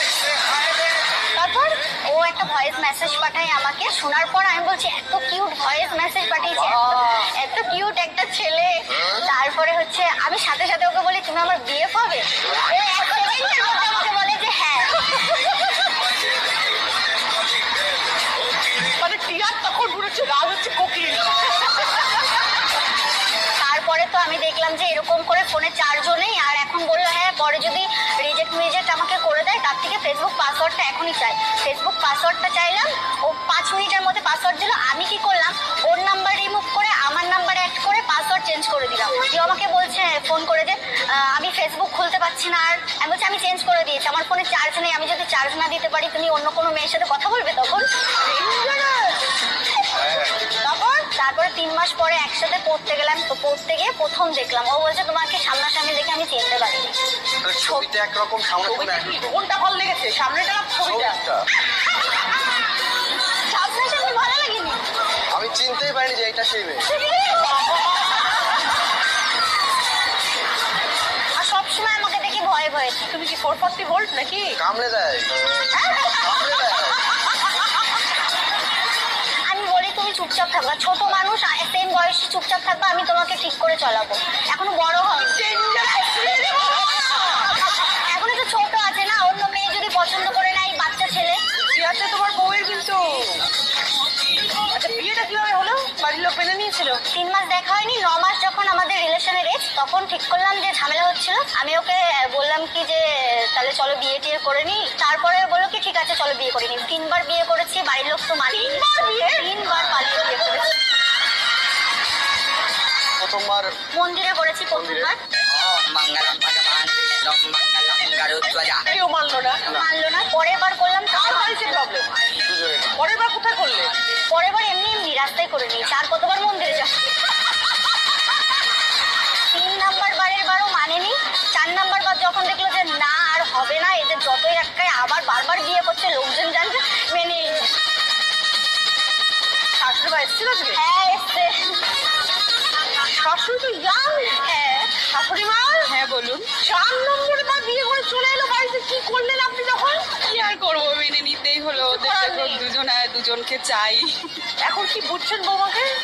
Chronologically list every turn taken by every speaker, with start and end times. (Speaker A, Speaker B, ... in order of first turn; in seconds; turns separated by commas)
Speaker A: 1.3-1.8, Speaker B: 2.1-15.2, Speaker A: 6.6-7.3, Speaker A: 18.9-22.0, Speaker B: 23.6-47.9, Speaker A: 48.2-49.2, Speaker A: 50.5-51.1, Speaker B: 51.1-56.9, Speaker C: 57.4-59.3, Speaker A: 58.6-61.2, Speaker C: 60.9-61.4, Speaker B: 63.5-64.8, Speaker C: 65.3-66.9, Speaker B: 71.4-73.1, Speaker A: 73.1-74.6, Speaker C: 74.6-75.3, Speaker C: 76.2-77.0, Speaker B: 79.5-85.4, Speaker A: 85.1-87.4, Speaker B: 87.9-91.4, Speaker A: 91.7-93.4, Speaker A: 94.7-97.0, Speaker B: 97.1-110.7, Speaker A: 108.5-109.5, Speaker C: 113.2-113.8, Speaker B: 113.9-115.2, Speaker D: 115.5-118.8, Speaker A: 118.9-119.6, Speaker B: 119.7-121.7, Speaker A: 121.1-122.1, Speaker C: 122.5-122.9, Speaker A: 122.9-123.9, Speaker B: 124.3-127.1, Speaker B: 129.5-137.6, Speaker A: 139.8-140.8, Speaker B: 140.7-141.8, Speaker A: 143.1-144.4, Speaker B: 144.4-144.9, Speaker A: 145.0-145.9, Speaker E: 145.8-146.5, Speaker A: 146.6-150.2, Speaker E: 150.2-154.4, Speaker A: 151.8-152.6, Speaker A: 154.6-155.9